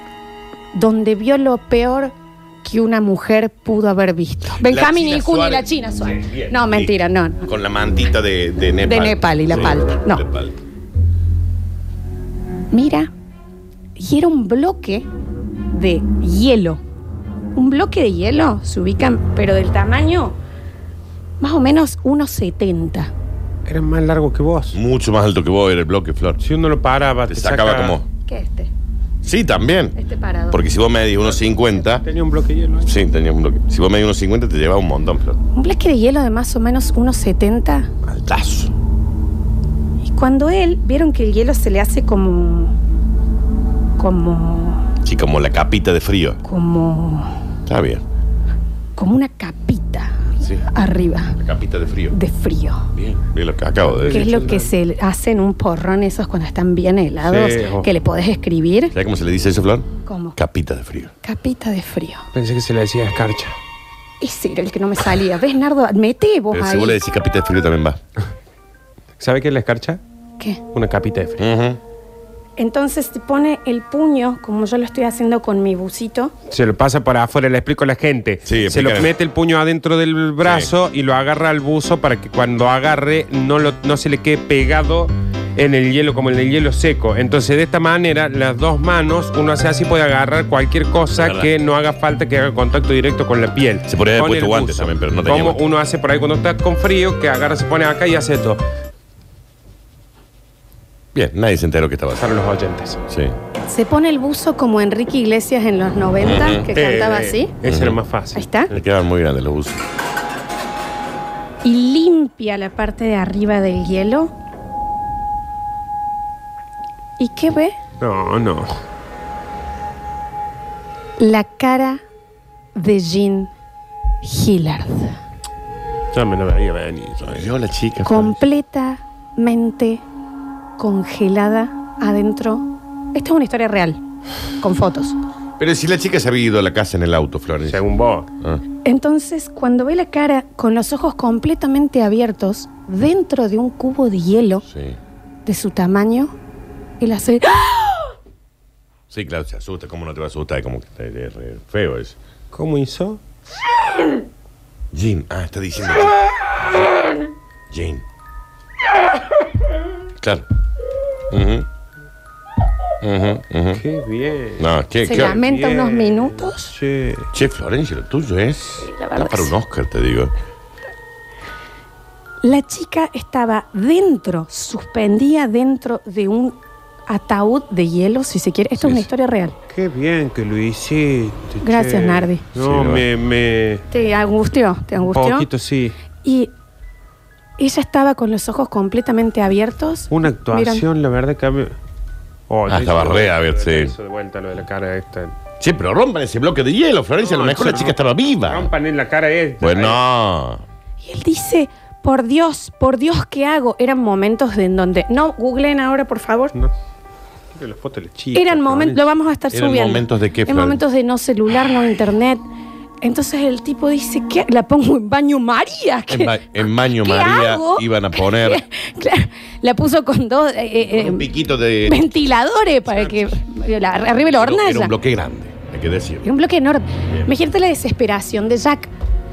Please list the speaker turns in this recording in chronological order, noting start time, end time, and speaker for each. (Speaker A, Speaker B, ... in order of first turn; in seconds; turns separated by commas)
Speaker A: 0.7-7.5, Speaker B: 4.6-10.6, Speaker A: 8.8-10.2, Speaker A: 12.7-13.1, Speaker A: 13.9-15.1, Speaker A: 15.7-16.8, Speaker A: 17.5-20.4, Speaker A: 21.4-23.1, Speaker C: 23.6-24.8, Speaker B: 24.7-26.4, Speaker C: 26.4-28.0, Speaker B: 27.3-28.0, Speaker A: 28.2-28.7, Speaker B: 29.2-29.9, Speaker A: 29.9-30.6, Speaker B: 30.5-32.0, Speaker C: 31.6-32.9, Speaker B: 32.8-35.4, Speaker A: 35.5-37.9, Speaker B: 38.0-38.7, Speaker A: 40.0-42.7, Speaker A: 44.0-44.9, Speaker B: 45.0-46.4, Speaker A: 46.4-47.4, Speaker B: 47.6-48.0, Speaker A: 49.0-51.4, Speaker B: 51.4-52.1, Speaker A: 52.1-52.9, Speaker B: 52.9-54.4, Speaker C: 53.9-54.7, Speaker A: 54.1-58.9, Speaker C: 57.2-57.9, Speaker B: 58.9-61.1, Speaker A: 60.0-60.4, Speaker A: 61.2-62.2, Speaker C: 62.3-63.5, Speaker A: 64.2-67.0, Speaker B: 66.5-68.0, Speaker C: 69.2-70.0, Speaker C: 70.7-71.4, Speaker B: 71.4-71.8, Speaker A: 72.6-76.3, Speaker C: 76.5-98.6, Speaker B: 78.5-79.1, Speaker B: 80.4-80.7, Speaker B: 91.2-91.5, Speaker B: 93.9-95.6, Speaker B: 101.1-102.2, Speaker C: 102.2-103.0, Speaker B: 103.1-103.3, Speaker A: 103.7-107.5, Speaker B: 106.2-106.7, Speaker C: 106.7-108.8, Speaker B: 107.6-108.0, Speaker A: 108.3-108.7, Speaker B: 108.7-109.8, Speaker A: 111.6-114.3, Speaker A: 117.2-117.8, Speaker C: 118.0-118.8, Speaker A: 121.2-122.0, Speaker A: 122.8-123.5, Speaker A: 124.2-125.2, Speaker C: 126.1-127.5, Speaker B: 127.2-128.4, Speaker A: 128.0-130.0, Speaker A: 130.8-134.0, Speaker A: 134.6-135.2, Speaker B: 135.6-137.8, Speaker C: 137.7-138.3, Speaker A: 138.8-144.6, Speaker B: 144.7-145.0, Speaker A: 145.4-146.3, Speaker A: 147.0-148.1, Speaker B: 149.1-152.2, Speaker C: 152.5-153.2, Speaker B: 154.9-156.1, Speaker B: 157.7-158.0, Speaker B: 161.3-161.7, Speaker B: 163.0-163.8, Speaker C: 163.8-167.3, Speaker B: 164.6-165.4, Speaker A: 165.0-166.7, Speaker B: 167.3-170.3, Speaker A: 168.8-169.5, Speaker A: 172.4-176.6, Speaker A: 177.1-179.5, Speaker B: 178.8-179.1, Speaker C: 179.7-183.8, Speaker A: 181.6-182.4, Speaker B: 182.6-183.0, Speaker A: 183.9-185.4, Speaker C: 185.1-185.9, Speaker A: 186.2-186.5, Speaker A: 187.6-190.8, Speaker C: 190.1-191.7, Speaker C: 192.5-195.3, Speaker B: 192.7-193.9, Speaker B: 195.6-198.7, Speaker C: 197.2-200.0, Speaker B: 199.6-200.6, Speaker A: 201.0-206.5, Speaker C: 207.5-209.1, Speaker A: 208.3-212.4, Speaker B: 209.5-210.8, Speaker A: 213.0-221.3, Speaker B: 216.1-218.6, Speaker B: 220.9-222.1, Speaker A: 221.8-224.9, Speaker B: 224.3-226.3, Speaker A: 226.2-228.9